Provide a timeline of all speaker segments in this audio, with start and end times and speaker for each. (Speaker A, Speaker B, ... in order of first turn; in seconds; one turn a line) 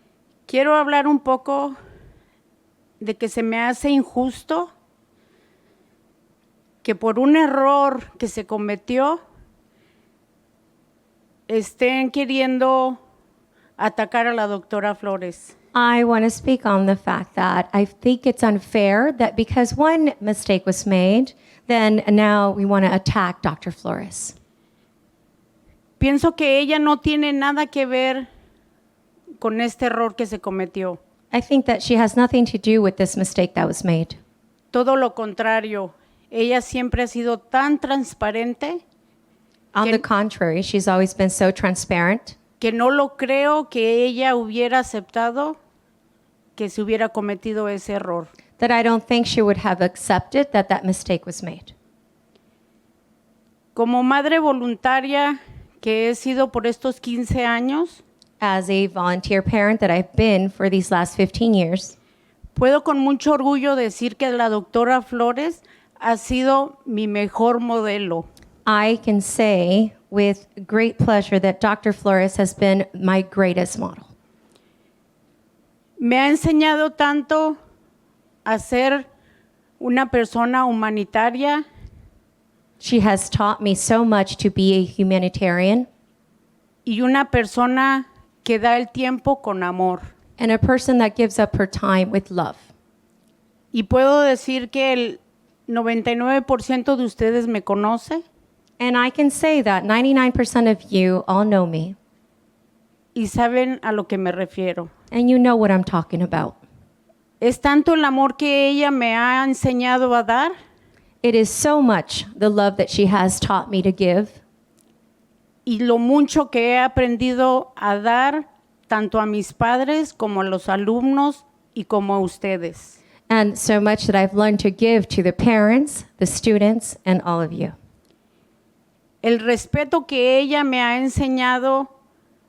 Speaker A: 0.5-1.8
Speaker A: 3.0-4.7
Speaker A: 6.8-9.2
Speaker A: 11.5-13.0
Speaker A: 13.8-15.5
Speaker B: 15.7-24.4
Speaker A: 26.0-28.3
Speaker A: 29.4-31.0
Speaker B: 31.3-34.2
Speaker A: 34.7-38.8
Speaker B: 39.7-42.4
Speaker A: 42.6-45.6
Speaker A: 46.6-48.3
Speaker B: 48.6-51.7
Speaker A: 53.8-58.0
Speaker B: 58.4-62.0
Speaker A: 62.5-68.3
Speaker B: 68.7-74.1
Speaker A: 76.0-77.6
Speaker A: 78.5-79.1
Speaker A: 79.8-81.6
Speaker B: 82.8-85.9
Speaker A: 86.9-90.1
Speaker B: 90.4-92.7
Speaker A: 93.7-98.2
Speaker B: 98.8-102.0
Speaker A: 103.2-104.9
Speaker B: 105.1-106.6
Speaker A: 107.4-110.5
Speaker B: 111.2-114.4
Speaker A: 115.7-123.0
Speaker B: 123.3-127.8
Speaker A: 129.2-131.9